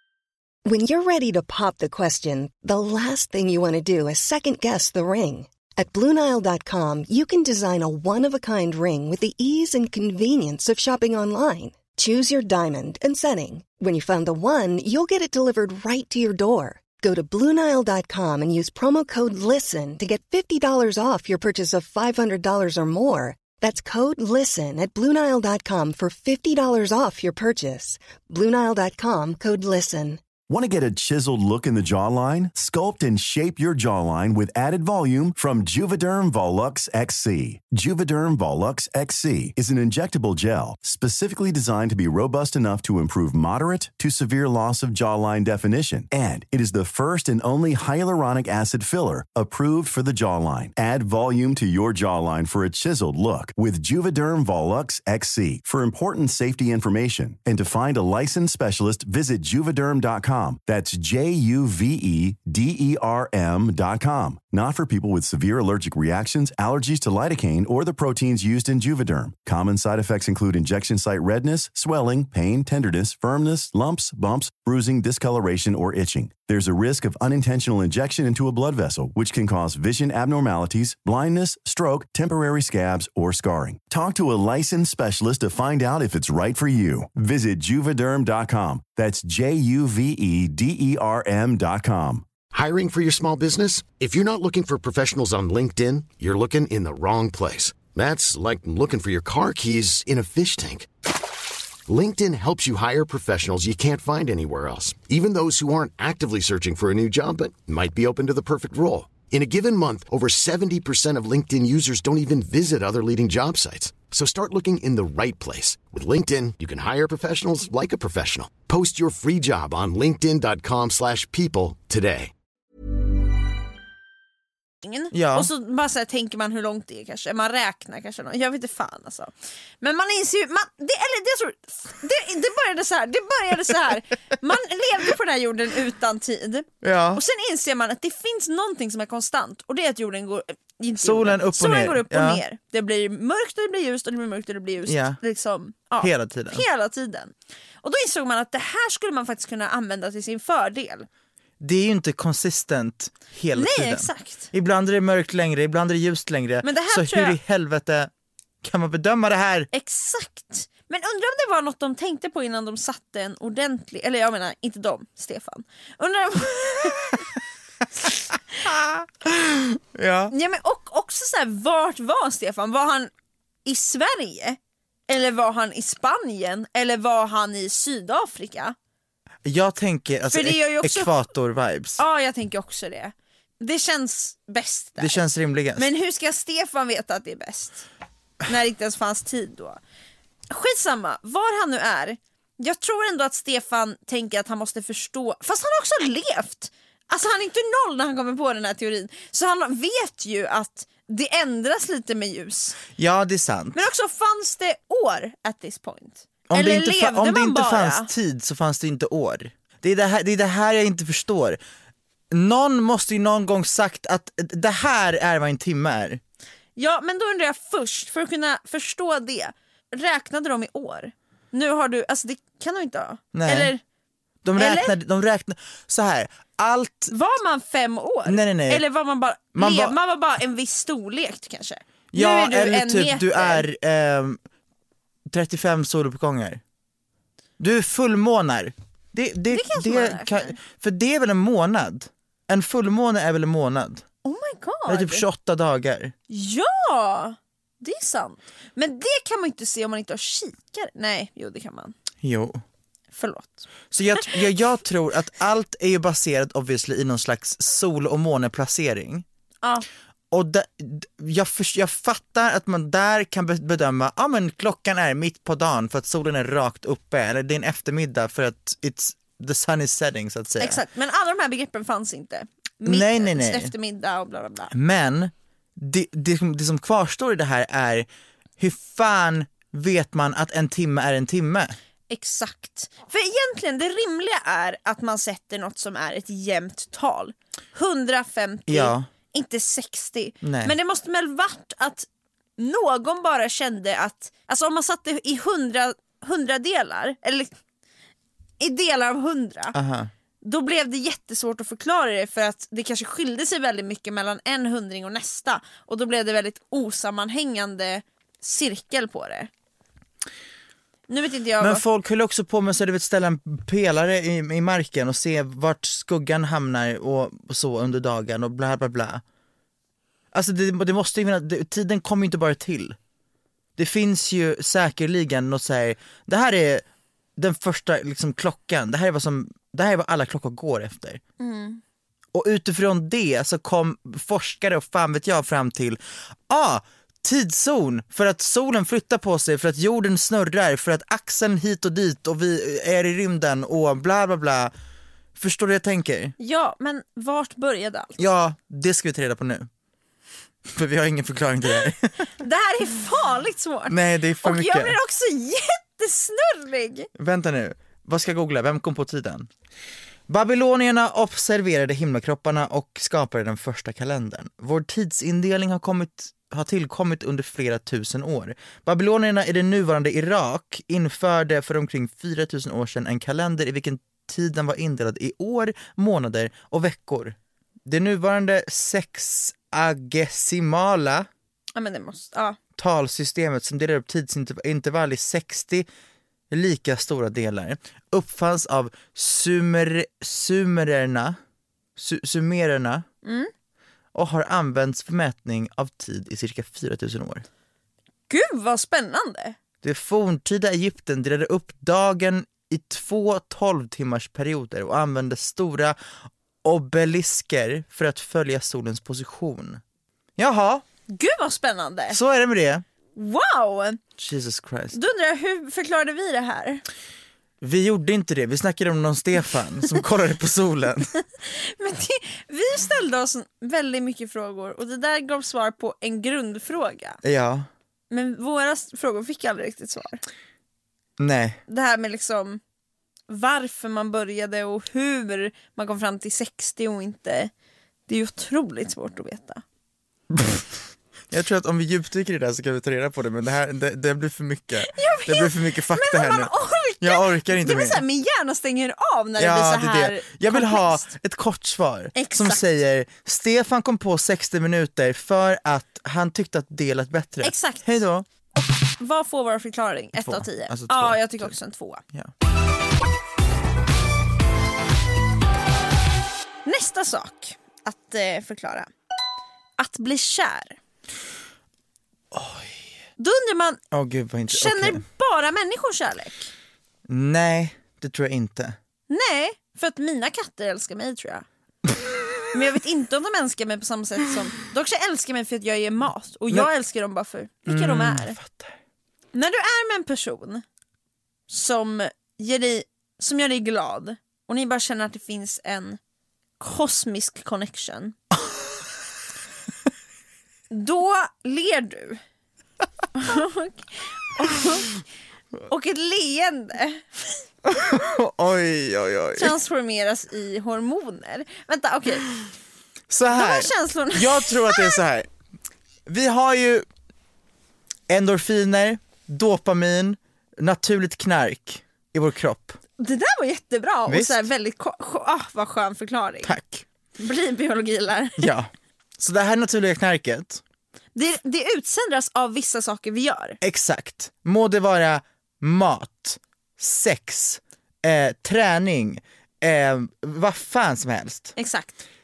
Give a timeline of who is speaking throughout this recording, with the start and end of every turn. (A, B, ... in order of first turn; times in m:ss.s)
0:00.6-0:30.2 A
0:30.5-1:32.3 B
1:32.5-1:40.9 C
1:41.9-2:02.3 C
2:04.8-2:31.1 D
2:05.1-2:05.5 E
2:16.8-2:17.2 E
2:21.0-2:22.4 E
2:24.9-2:25.2 E
2:26.0-2:26.6 E
2:31.6-2:38.1 E
2:33.5-2:34.5 D
2:36.6-2:37.4 D
2:38.6-2:39.7 E
2:39.7-2:47.2 D
2:48.6-2:50.3 E
2:50.3-2:53.1 D
2:53.6-2:58.7 D
2:59.4-3:02.0 E
3:00.3-3:01.1 D
3:02.0-3:05.2 D
3:05.0-3:05.9 E
3:05.8-3:07.8 D
3:08.4-3:09.8 D
3:10.5-3:22.8 D
3:23.0-3:23.8 E
3:23.7-3:28.1 D
3:26.5-3:31.6 E
3:32.3-3:36.2 E
3:36.8-3:43.8 D
3:43.3-3:43.7 E
3:44.4-3:47.1 E
3:44.6-3:44.9 D
3:47.1-3:53.6 D
3:48.2-3:48.8 E
3:49.6-3:49.9 E
3:52.1-3:54.4 E
3:55.3-3:56.6 E
3:57.6-4:04.0 E
3:59.5-4:00.6 D
4:04.2-4:05.2 D
4:04.9-4:06.1 E
4:06.3-4:11.9 D
4:12.2-4:12.6 E
4:13.1-4:13.6 D
4:13.9-4:19.2 E
4:14.2-4:14.4 D
4:20.3-4:30.8 E
4:30.6-4:34.7 D
4:32.8-4:33.7 E
4:34.7-4:38.1 E
4:38.6-4:41.8 E
4:42.1-4:52.1 D
4:48.7-4:49.0 E
4:50.4-4:50.7 E
4:52.6-4:57.5 D
4:58.6-4:59.7 D
4:59.7-5:00.1 E
5:00.4-5:09.5 D
5:11.1-5:11.8 D
5:11.6-5:19.2 E
5:20.3-5:23.0 E
5:23.8-5:26.8 E
5:27.4-5:31.2 E
5:31.4-5:31.8 D
5:32.3-5:44.7 E
5:45.4-5:46.3 E
5:46.4-5:48.2 D
5:48.2-5:49.7 E
5:50.7-5:52.3 E
5:52.4-5:57.1 D
5:53.9-5:55.0 E
5:57.2-5:59.5 E
6:00.3-6:17.4 E
6:17.9-6:21.3 E
6:21.7-6:22.6 D
6:22.8-6:25.9 E
6:26.5-6:31.4 E
6:32.0-6:33.0 E
6:33.2-6:33.5 D
6:34.1-6:37.4 E
6:38.3-6:39.6 D
6:39.8-6:46.0 E
6:46.6-6:49.8 E
6:50.4-6:50.8 E
6:51.1-6:52.2 D
6:52.1-6:52.8 E
6:53.2-6:54.0 D
6:54.2-6:55.0 E
6:54.9-6:56.8 D
6:57.6-7:01.2 E
7:01.4-7:07.2 D
7:07.2-7:07.7 E
7:08.1-7:10.2 D
7:11.2-7:11.6 E
7:11.7-7:12.6 D
7:13.3-7:17.5 D
7:18.1-7:19.6 D
7:20.3-7:20.6 E
7:21.3-7:26.5 E
7:24.8-7:31.1 D
7:27.0-7:28.0 E
7:29.4-7:38.2 E
7:32.1-7:32.6 D
7:37.4-7:37.8 D
7:39.0-7:42.0 D
7:40.2-7:41.5 E
7:46.6-7:48.9 D
7:49.8-7:50.8 D
7:52.3-7:52.7 E
7:53.2-7:53.8 D
7:53.9-7:55.0 E
7:54.5-7:56.5 D
7:57.1-7:58.8 E
7:59.1-8:01.4 D
8:02.5-8:08.4 D
8:07.7-8:08.7 E
8:09.3-8:10.6 D
8:11.5-8:16.0 D
8:16.6-8:18.1 D
8:20.7-8:22.2 D
8:23.1-8:25.0 D
8:25.7-8:27.4 D
8:27.6-8:29.5 E
8:29.4-8:32.3 D
8:33.1-8:35.3 E
8:33.3-8:35.0 D
8:36.1-8:36.8 E
8:38.1-8:42.8 E
8:43.0-8:46.6 D
8:44.1-8:44.4 E
8:46.4-8:46.8 E
8:47.2-8:48.5 D
8:48.4-8:50.6 E
8:51.1-8:53.6 D
8:53.6-9:01.5 E
9:01.6-9:02.0 D